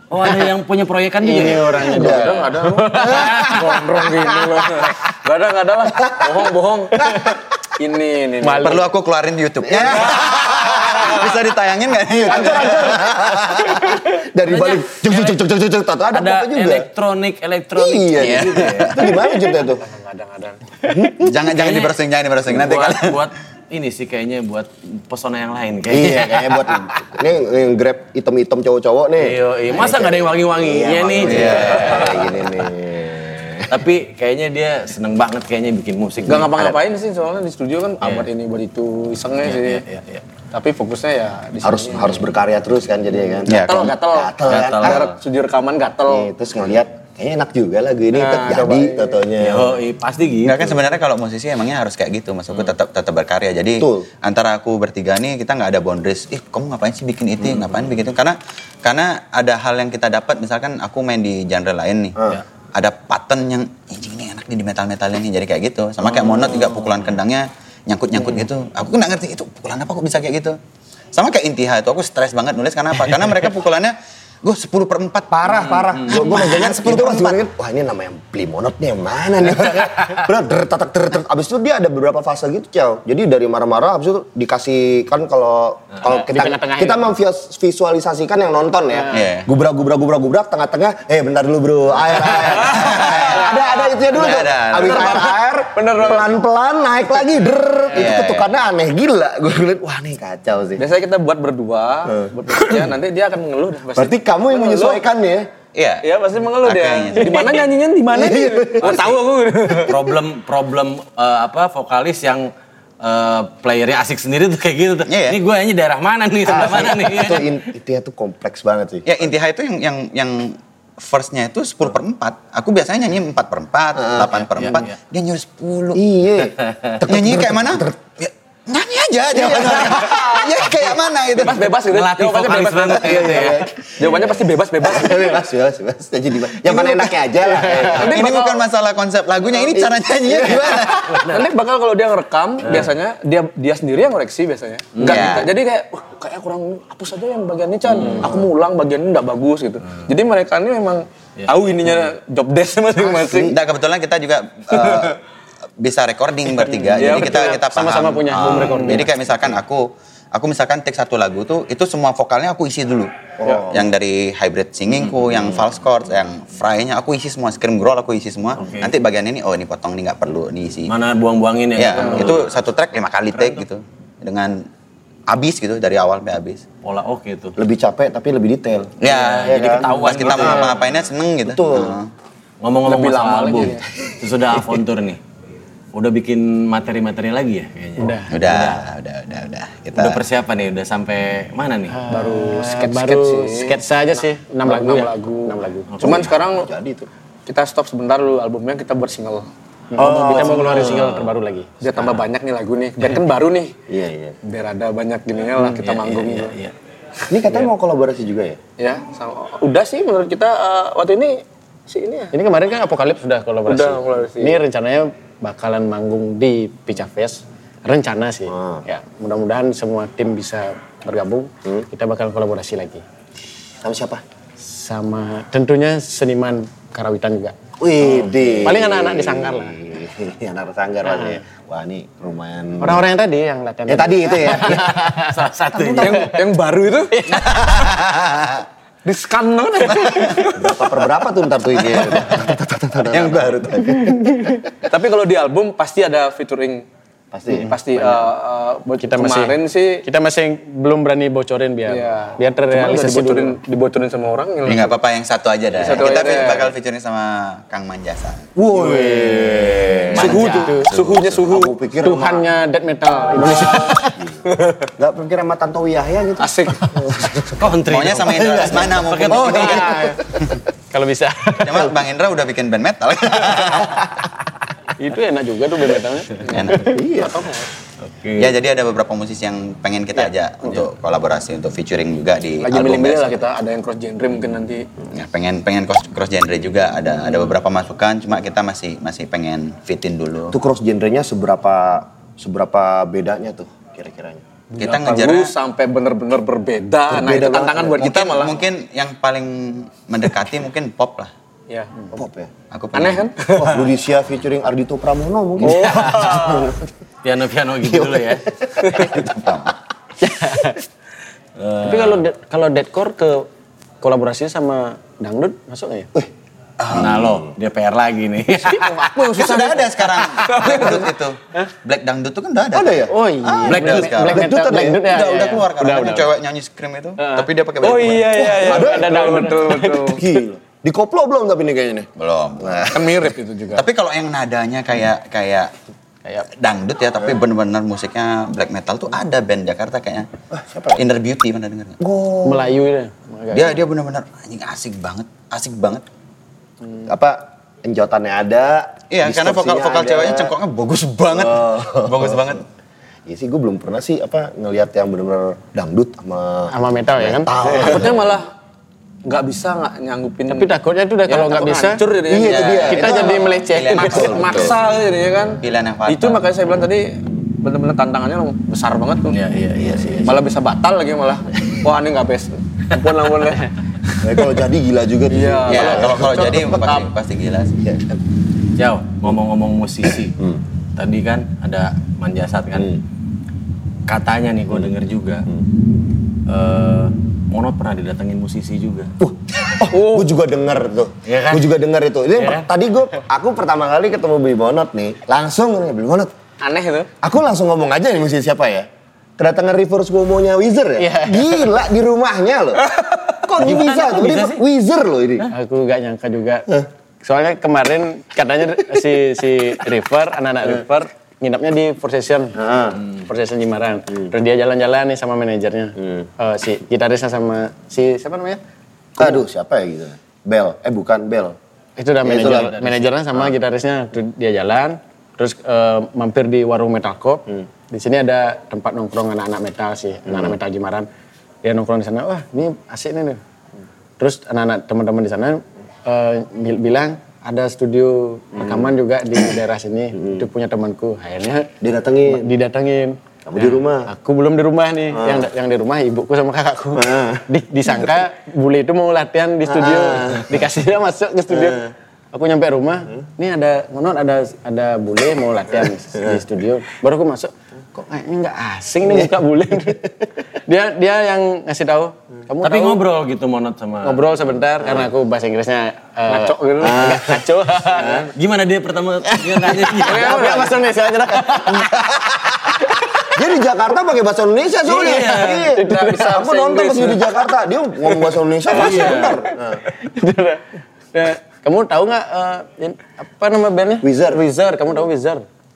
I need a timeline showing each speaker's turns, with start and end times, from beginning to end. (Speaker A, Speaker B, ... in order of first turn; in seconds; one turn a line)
Speaker A: 0.1-2.1
Speaker B: 1.2-4.0
Speaker C: 1.7-4.9
Speaker D: 1.9-8.9
Speaker A: 3.2-3.5
Speaker C: 6.0-7.4
Speaker B: 8.4-8.8
Speaker E: 8.6-13.9
Speaker C: 9.6-11.2
Speaker D: 9.8-10.9
Speaker C: 12.1-16.9
Speaker A: 14.4-15.4
Speaker A: 16.1-19.3
Speaker C: 17.7-19.8
Speaker E: 18.2-19.1
Speaker D: 20.0-20.5
Speaker B: 20.8-21.1
Speaker C: 20.9-21.4
Speaker E: 21.2-23.2
Speaker A: 21.5-21.9
Speaker A: 22.4-27.0
Speaker C: 25.9-33.8
Speaker A: 29.2-32.7
Speaker E: 31.2-32.1
Speaker A: 33.7-36.6
Speaker D: 36.2-39.8
Speaker C: 36.3-36.8
Speaker A: 38.0-38.3
Speaker A: 39.4-40.2
Speaker D: 40.5-42.2
Speaker C: 41.6-45.1
Speaker E: 43.5-44.0
Speaker D: 43.5-46.3
Speaker A: 44.5-45.1
Speaker C: 46.1-49.8
Speaker D: 48.1-49.1
Speaker A: 49.4-50.9
Speaker E: 50.4-62.2
Speaker C: 53.8-54.1
Speaker A: 57.5-57.8
Speaker C: 62.1-62.4
Speaker E: 62.7-70.6
Speaker A: 66.0-67.0
Speaker E: 71.1-77.4
Speaker C: 75.3-100.8
Speaker A: 75.9-76.3
Speaker B: 86.0-87.0
Speaker B: 89.0-89.2
Speaker E: 89.1-89.5
Speaker E: 92.5-95.3
Speaker D: 95.7-96.3
Speaker E: 97.9-98.5
Speaker D: 100.8-105.0
Speaker C: 103.9-105.5
Speaker E: 105.7-106.0
Speaker D: 106.0-110.0
Speaker E: 106.6-107.7
Speaker C: 108.1-109.1
Speaker A: 109.7-117.6
Speaker E: 115.1-115.4
Speaker C: 116.5-119.2
Speaker E: 119.0-126.0
Speaker C: 124.0-124.3
Speaker A: 124.5-124.9
Speaker C: 125.9-128.0
Speaker E: 127.0-131.7
Speaker C: 129.3-130.7
Speaker D: 131.3-135.4
Speaker A: 131.8-133.7
Speaker C: 132.9-138.3
Speaker D: 137.8-138.6
Speaker E: 137.9-141.3
Speaker C: 139.6-141.2
Speaker A: 141.1-141.4
Speaker D: 141.2-153.5
Speaker A: 142.6-142.9
Speaker A: 144.9-145.4
Speaker E: 145.0-145.5
Speaker C: 152.9-153.6
Speaker E: 153.5-155.2
Speaker D: 154.8-155.1
Speaker E: 155.8-170.9
Speaker D: 156.7-157.7
Speaker B: 157.0-159.1
Speaker C: 163.4-163.9
Speaker A: 168.6-168.9
Speaker A: 170.9-172.5
Speaker E: 171.8-174.7
Speaker E: 175.3-176.6
Speaker A: 176.8-177.6
Speaker C: 177.6-180.7
Speaker A: 179.0-180.8
Speaker E: 179.0-182.1
Speaker D: 179.8-180.3
Speaker C: 181.4-182.0
Speaker A: 182.6-185.2
Speaker D: 182.8-183.8
Speaker A: 185.9-188.8
Speaker B: 188.0-188.3
Speaker E: 188.3-190.2
Speaker A: 189.9-192.0
Speaker B: 191.9-195.9
Speaker D: 192.1-193.8
Speaker D: 194.6-196.7
Speaker A: 195.9-196.3
Speaker C: 196.0-197.1
Speaker D: 197.4-199.5
Speaker B: 199.9-201.8
Speaker A: 200.0-201.3
Speaker D: 200.0-201.0
Speaker D: 201.8-203.7
Speaker C: 203.9-204.4
Speaker D: 204.4-206.5
Speaker A: 205.6-206.7
Speaker C: 207.3-208.6
Speaker D: 208.8-212.3
Speaker B: 212.3-223.0
Speaker D: 213.7-214.6
Speaker C: 218.5-218.8
Speaker C: 223.8-224.2
Speaker B: 224.6-227.6
Speaker C: 227.8-233.1
Speaker B: 228.6-229.8
Speaker B: 231.1-231.4
Speaker B: 232.8-236.3
Speaker C: 233.9-235.1
Speaker A: 234.6-236.3
Speaker C: 235.8-236.2
Speaker D: 236.0-237.3
Speaker B: 237.1-237.7
Speaker E: 237.3-238.6
Speaker D: 239.0-240.9
Speaker E: 240.0-240.4
Speaker C: 240.5-244.6
Speaker E: 241.8-242.4
Speaker E: 243.1-244.1
Speaker D: 244.8-246.8
Speaker C: 247.3-247.7
Speaker D: 247.5-250.1
Speaker B: 248.0-248.2
Speaker B: 249.0-253.6
Speaker D: 251.8-254.9
Speaker E: 254.7-258.5
Speaker D: 255.7-256.7
Speaker C: 258.6-262.4
Speaker B: 258.7-259.4
Speaker A: 259.1-260.7
Speaker D: 260.1-261.8
Speaker B: 260.2-260.9
Speaker B: 262.0-264.1
Speaker C: 263.3-264.4
Speaker D: 263.3-263.9
Speaker D: 264.5-264.9
Speaker C: 265.0-270.5
Speaker D: 266.4-267.0
Speaker A: 267.5-270.1
Speaker E: 267.8-270.1
Speaker B: 270.9-271.9
Speaker E: 271.6-274.1
Speaker B: 275.0-277.0
Speaker D: 276.4-277.7
Speaker E: 276.5-276.9
Speaker C: 276.9-277.5
Speaker A: 278.0-278.5
Speaker E: 278.4-283.5
Speaker D: 282.6-284.9
Speaker E: 285.1-290.6
Speaker C: 290.5-294.4
Speaker D: 294.7-298.6
Speaker E: 294.8-295.5
Speaker C: 297.1-298.1
Speaker E: 298.0-301.3
Speaker D: 301.7-302.1
Speaker C: 302.1-302.5
Speaker E: 302.7-303.3
Speaker D: 302.9-303.8
Speaker C: 303.5-306.8
Speaker D: 305.6-306.7
Speaker A: 305.7-306.4
Speaker A: 307.2-308.4
Speaker C: 307.8-309.4
Speaker E: 309.1-309.7
Speaker B: 310.2-310.8
Speaker A: 311.6-312.2
Speaker B: 311.8-313.5
Speaker B: 314.0-316.1
Speaker E: 316.8-317.2
Speaker A: 316.9-319.3
Speaker C: 317.0-317.4
Speaker D: 318.7-321.0
Speaker E: 319.3-328.6
Speaker C: 322.7-323.1
Speaker B: 323.1-326.3
Speaker A: 323.6-324.1
Speaker C: 324.2-325.2
Speaker B: 327.2-327.5
Speaker D: 327.8-330.2
Speaker C: 328.3-329.5
Speaker B: 328.4-330.2
Speaker C: 330.1-333.1
Speaker E: 332.2-333.1
Speaker D: 332.9-333.8
Speaker E: 333.7-335.7
Speaker E: 336.5-340.3
Speaker C: 340.5-341.0
Speaker E: 340.9-342.0
Speaker C: 342.0-342.8
Speaker B: 342.4-343.8
Speaker E: 343.5-346.0
Speaker C: 347.0-350.5
Speaker E: 349.1-352.6
Speaker C: 351.3-352.5
Speaker C: 353.3-358.4
Speaker B: 356.7-357.5
Speaker D: 357.6-358.5
Speaker D: 359.2-360.7
Speaker B: 360.5-362.0
Speaker D: 361.3-363.4
Speaker C: 362.3-364.7
Speaker B: 362.9-364.4
Speaker E: 363.2-364.8
Speaker D: 363.9-369.4
Speaker E: 365.6-366.4
Speaker A: 369.3-370.3
Speaker C: 369.8-370.2
Speaker D: 370.2-373.7
Speaker C: 374.2-376.7
Speaker D: 375.3-377.1
Speaker E: 375.7-377.8
Speaker A: 378.8-380.4
Speaker A: 380.9-382.9
Speaker A: 384.1-385.4
Speaker A: 386.5-389.1
Speaker C: 389.2-396.3
Speaker D: 389.8-390.3
Speaker A: 391.2-391.7
Speaker D: 396.6-397.1
Speaker C: 397.2-405.5
Speaker B: 401.0-401.8
Speaker A: 403.6-404.6
Speaker B: 405.5-406.7
Speaker B: 407.2-412.6
Speaker C: 412.5-413.0
Speaker B: 413.2-418.6
Speaker C: 416.0-416.3
Speaker C: 419.2-421.6
Speaker B: 422.0-431.1
Speaker C: 422.2-422.8
Speaker A: 422.4-423.0
Speaker C: 430.3-430.6
Speaker B: 431.6-433.4
Speaker B: 434.2-441.7
Speaker C: 438.6-438.9
Speaker C: 440.1-440.4
Speaker C: 441.8-442.5
Speaker B: 442.2-463.0
Speaker C: 443.4-444.1
Speaker C: 445.1-445.5
Speaker C: 446.9-448.1
Speaker C: 449.6-450.6
Speaker C: 451.5-451.8
Speaker C: 456.1-456.4
Speaker C: 459.0-459.4
Speaker A: 462.6-464.2
Speaker B: 464.0-468.2
Speaker C: 464.8-465.1
Speaker D: 466.3-467.1
Speaker C: 466.8-467.4
Speaker A: 467.9-470.6
Speaker B: 469.4-473.4
Speaker D: 470.1-470.7
Speaker C: 471.4-472.7
Speaker C: 473.3-479.8
Speaker A: 474.8-475.7
Speaker B: 475.5-476.4
Speaker D: 475.7-477.3
Speaker A: 478.7-479.4
Speaker B: 478.8-485.4
Speaker C: 484.0-484.4